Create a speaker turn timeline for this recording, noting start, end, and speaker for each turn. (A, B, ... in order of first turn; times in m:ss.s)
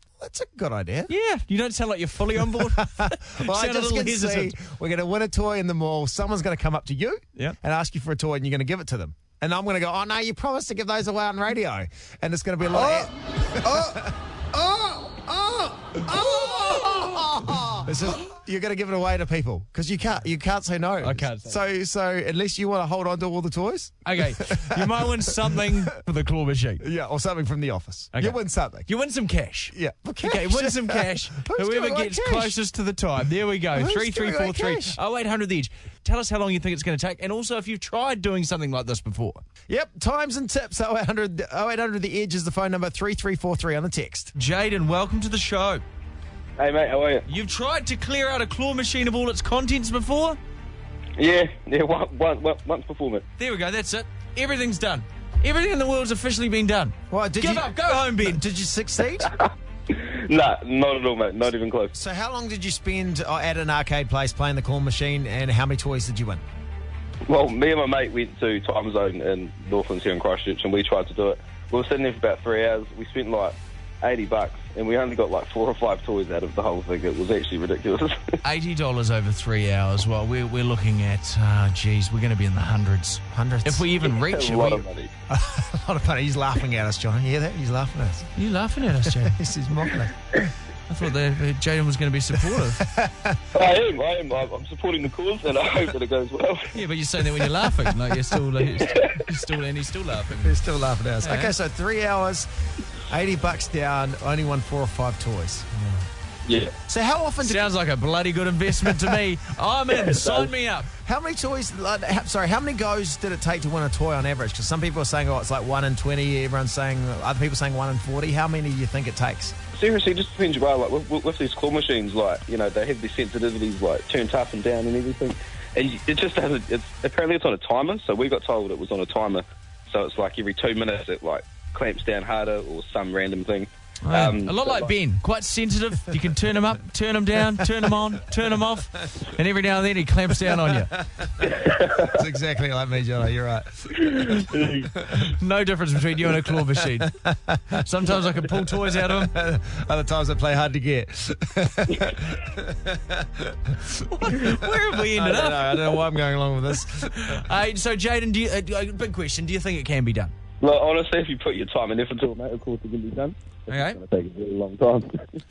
0:00.2-0:01.1 A
0:01.1-0:04.6 B
0:02.4-0:25.9 A
0:21.0-0:21.6 B
0:24.0-0:26.8 B
0:26.8-0:28.9 A
0:28.1-0:39.4 B
0:29.7-0:32.6 A
0:33.7-0:35.0 A
0:39.7-0:44.3 A
0:44.4-0:45.8 B
0:46.6-0:47.3 C
0:47.3-0:50.4 B
0:51.2-0:53.3 C
0:53.4-0:58.4 B
0:57.1-0:59.3 A
0:59.9-1:01.9 C
1:01.9-1:06.4 A
1:07.3-1:18.3 C
1:18.4-1:24.9 B
1:23.3-1:23.9 A
1:24.0-1:25.1 C
1:25.3-1:28.3 A
1:28.4-1:29.4 B
1:29.0-1:30.2 A
1:30.9-1:32.9 B
1:32.5-1:33.4 A
1:33.5-1:36.7 C
1:36.7-1:40.6 B
1:38.8-1:39.2 C
1:40.3-1:42.5 A
1:41.2-1:41.5 B
1:43.1-1:46.1 A
1:46.5-1:46.8 C
1:46.9-1:47.7 A
1:47.4-1:50.9 B
1:48.9-1:49.2 A
1:51.0-1:59.6 A
1:59.7-2:14.9 C
2:14.0-2:21.0 B
2:20.5-2:24.4 A
2:21.6-2:22.1 C
2:24.2-2:24.9 C
2:25.2-2:27.2 B
2:26.7-2:27.8 A
2:27.7-2:29.3 B
2:28.5-2:37.5 A
2:34.2-2:35.8 B
2:37.0-2:40.3 B
2:40.6-2:45.3 C
2:43.7-2:44.0 B